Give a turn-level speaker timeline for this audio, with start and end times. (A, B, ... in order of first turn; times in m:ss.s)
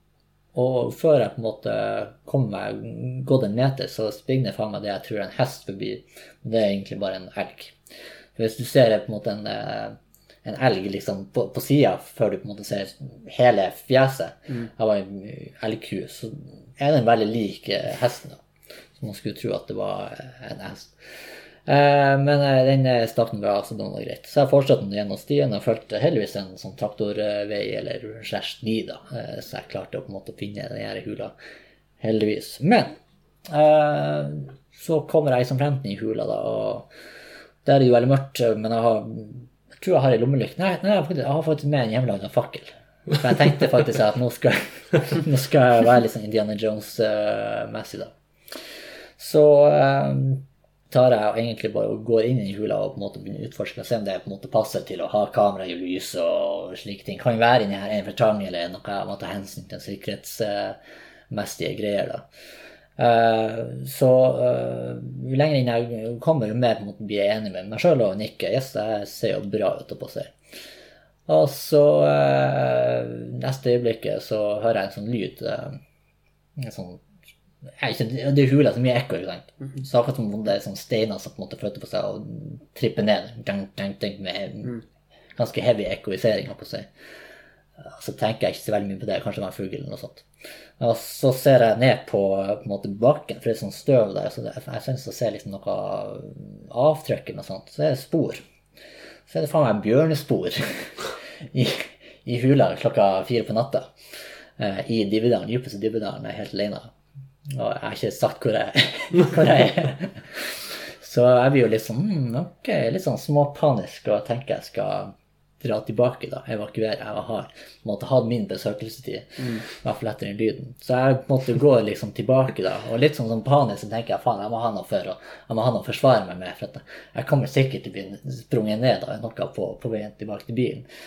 0:00.5-0:07.8 A
0:08.4-0:18.4 A
0:19.0-0:31.3 A
0:32.0-0:32.9 A
0:33.5-0:36.9 A
0:37.6-0:48.1 A
0:49.2-1:00.8 A
1:01.3-1:02.2 A
1:03.0-1:10.3 A
1:11.3-1:15.8 A
1:16.6-1:17.0 A
1:17.8-1:24.8 A
1:25.3-1:26.9 A
1:27.8-1:30.2 A
1:30.8-1:38.4 A
1:39.3-1:40.9 A
1:41.5-1:43.9 A
1:44.6-1:46.9 A
1:47.5-2:10.8 A